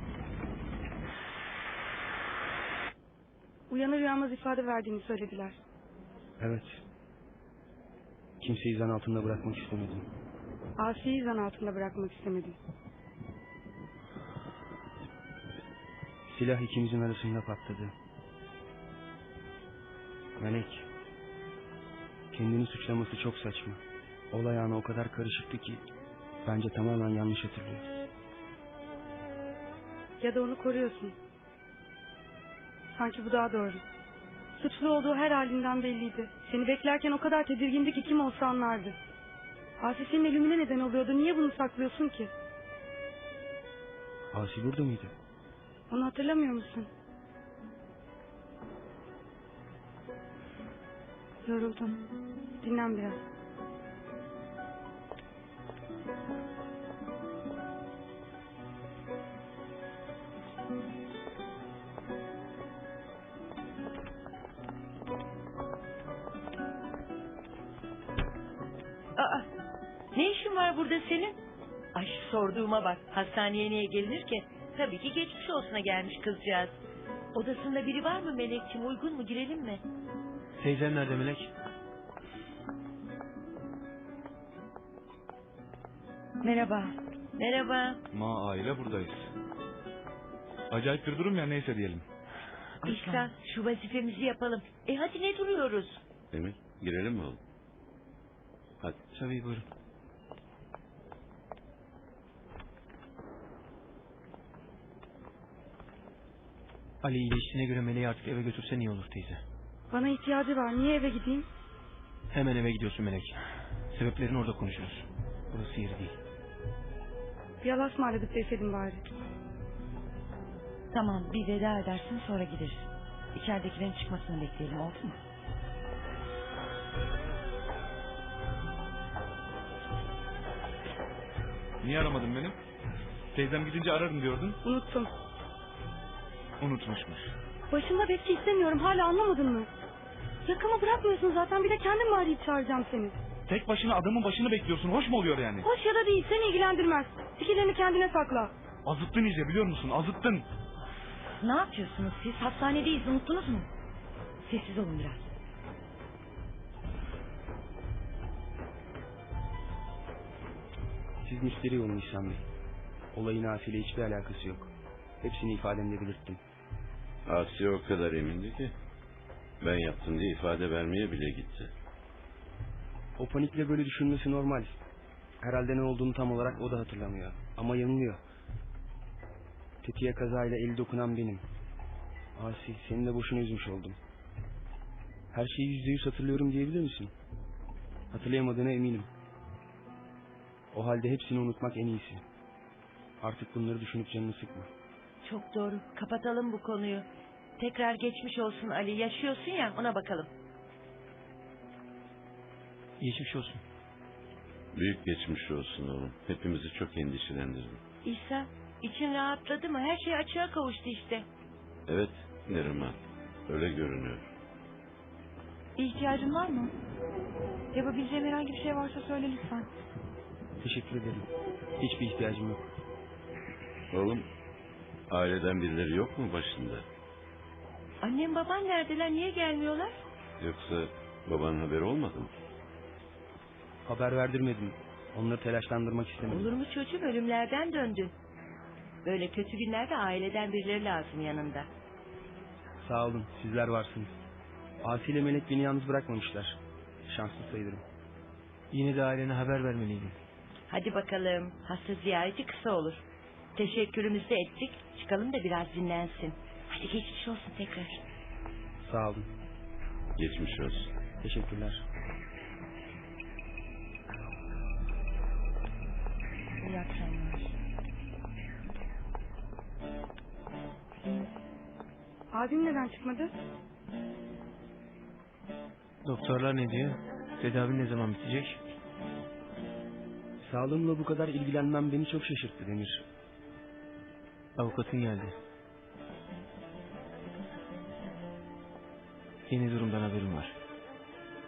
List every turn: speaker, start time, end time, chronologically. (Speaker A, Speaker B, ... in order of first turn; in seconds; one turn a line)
Speaker A: 3.7-5.6
Speaker B: 6.4-6.8
Speaker B: 8.4-10.1
Speaker A: 10.8-12.6
Speaker B: 16.3-17.9
Speaker B: 20.4-20.9
Speaker B: 22.3-23.8
Speaker B: 24.3-25.8
Speaker B: 26.4-27.9
Speaker A: 30.2-31.1
Speaker A: 32.9-33.8
Speaker A: 34.6-39.0
Speaker A: 39.8-42.3
Speaker B: 44.3-45.1
Speaker A: 45.9-46.9
Speaker A: 51.4-52.0
Speaker A: 52.6-53.2
Speaker C: 69.2-69.5
Speaker C: 70.1-71.4
Speaker C: 71.9-76.8
Speaker C: 77.3-79.8
Speaker D: 80.6-81.5
Speaker C: 86.4-88.0
Speaker E: 88.1-89.3
Speaker E: 90.7-92.0
Speaker C: 92.8-96.0
Speaker F: 96.3-97.4
Speaker D: 99.1-99.7
Speaker D: 107.0-109.4
Speaker A: 109.9-111.5
Speaker D: 112.3-116.2
Speaker A: 117.6-119.0
Speaker G: 120.9-125.2
Speaker E: 131.8-132.6
Speaker E: 133.3-134.6
Speaker A: 134.6-135.1
Speaker E: 136.6-137.3
Speaker A: 137.7-139.7
Speaker A: 140.4-143.2
Speaker E: 143.5-145.7
Speaker A: 145.6-148.5
Speaker E: 148.8-150.4
Speaker G: 151.4-153.7
Speaker G: 154.4-155.2
Speaker B: 161.2-162.4
Speaker B: 163.1-164.7
Speaker B: 165.2-166.4
Speaker F: 167.2-168.7
Speaker F: 169.6-171.7
Speaker B: 173.2-174.8
Speaker B: 175.4-178.2
Speaker B: 179.8-181.4
Speaker B: 182.4-184.0
Speaker B: 185.3-187.1
Speaker B: 188.1-189.1
Speaker B: 190.7-192.2
Speaker B: 193.2-194.7
Speaker C: 195.2-197.1
Speaker C: 197.6-200.3
Speaker D: 203.0-203.6
Speaker F: 204.7-207.8
Speaker C: 208.0-211.2
Speaker F: 211.9-214.2
Speaker H: 215.8-216.7
Speaker H: 217.7-219.7
Speaker B: 220.6-221.3
Speaker B: 221.8-222.7
Speaker F: 223.9-224.3
Speaker F: 225.1-226.8
Speaker C: 228.0-230.0
Speaker F: 230.4-232.3
Speaker B: 233.8-236.5
Speaker C: 236.2-238.1
Speaker C: 239.0-241.7
Speaker B: 242.8-244.1
Speaker B: 244.8-247.8
Speaker D: 248.7-250.2
Speaker C: 250.7-253.0
Speaker C: 253.6-258.0
Speaker B: 258.8-259.3
Speaker F: 260.2-260.9
Speaker B: 261.2-261.8
Speaker A: 272.3-273.3
Speaker D: 276.0-278.6
Speaker B: 280.4-283.0
Speaker D: 284.6-285.4
Speaker D: 289.5-290.5